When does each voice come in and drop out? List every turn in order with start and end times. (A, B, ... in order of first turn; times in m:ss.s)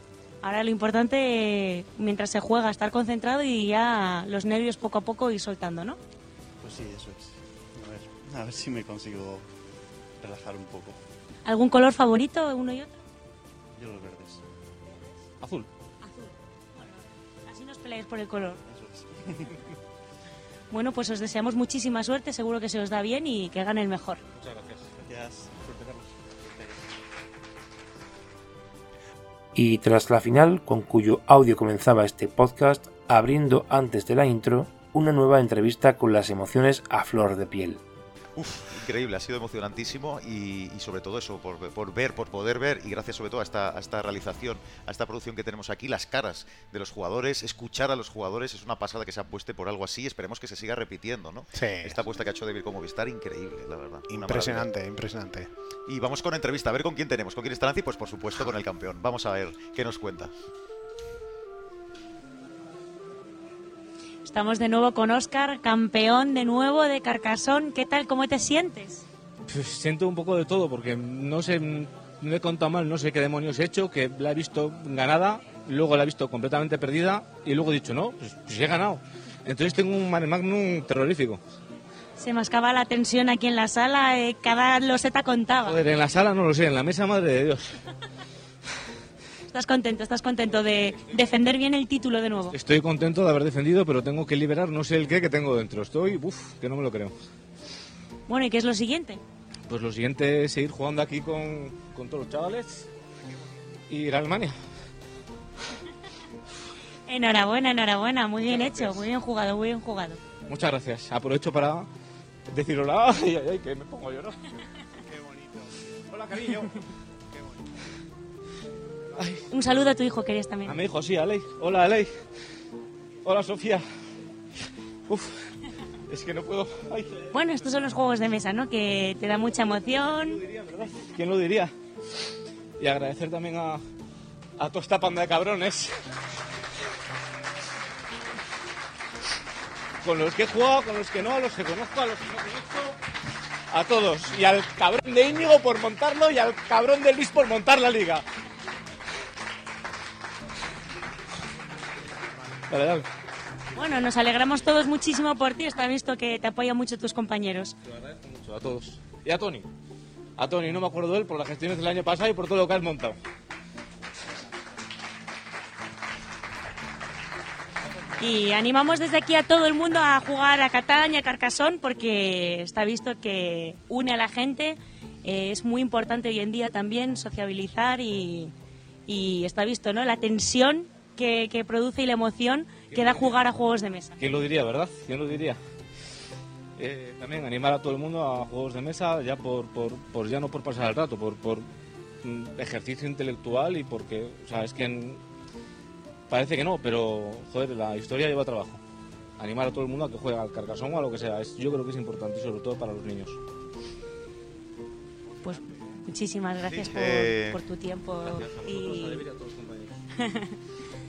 0:00.4-0:06.0 A
0:06.6-0:09.5 B
0:10.2-0:11.0 B
0:11.5-0:13.0 A
0:13.8-0:14.4 B
0:15.4-0:15.7 C
0:16.0-0:18.6 A
0:18.7-0:19.6 B
0:20.7-0:24.2 A
0:24.4-0:24.9 C
0:25.0-0:26.8 B
0:29.6-0:37.8 D
0:38.4-0:54.7 E
0:51.5-0:52.0 F
0:54.1-0:55.5 F
0:55.9-1:00.3 E
1:04.2-1:09.0 A
1:09.5-1:21.4 C
1:22.2-1:25.8 A
1:25.6-1:27.8 C
1:29.5-1:32.6 A
1:30.4-1:31.4 C
1:32.5-1:37.1 C
1:38.3-1:39.2 A
1:39.7-1:42.9 C
1:43.9-1:44.6 C
1:47.1-1:50.2 A
1:48.5-1:49.1 C
1:50.5-1:51.9 C
1:52.5-1:54.4 C
1:55.1-1:55.4 C
1:56.1-1:56.8 C
1:59.2-1:59.4 C
1:59.5-2:00.8 A
2:00.6-2:02.1 C
2:03.2-2:03.8 C
2:05.1-2:05.4 C
2:06.1-2:07.9 C
2:07.3-2:10.4 A
2:09.8-2:11.7 C
2:12.8-2:13.8 C
2:14.6-2:16.0 C
2:20.0-2:23.0 C
2:23.7-2:28.2 C
2:32.7-2:33.1 C
2:33.8-2:37.8 A
2:37.9-2:39.7 C
2:40.4-2:43.2 C
2:48.2-2:58.5 A
2:59.1-3:04.2 A
3:02.9-3:03.4 C
3:04.2-3:05.6 C
3:06.8-3:11.7 C
3:12.2-3:15.2 C
3:16.3-3:18.8 C
3:19.4-3:23.4 C
3:25.4-3:29.2 A
3:25.4-3:25.7 C
3:26.8-3:27.6 E
3:28.2-3:30.0 C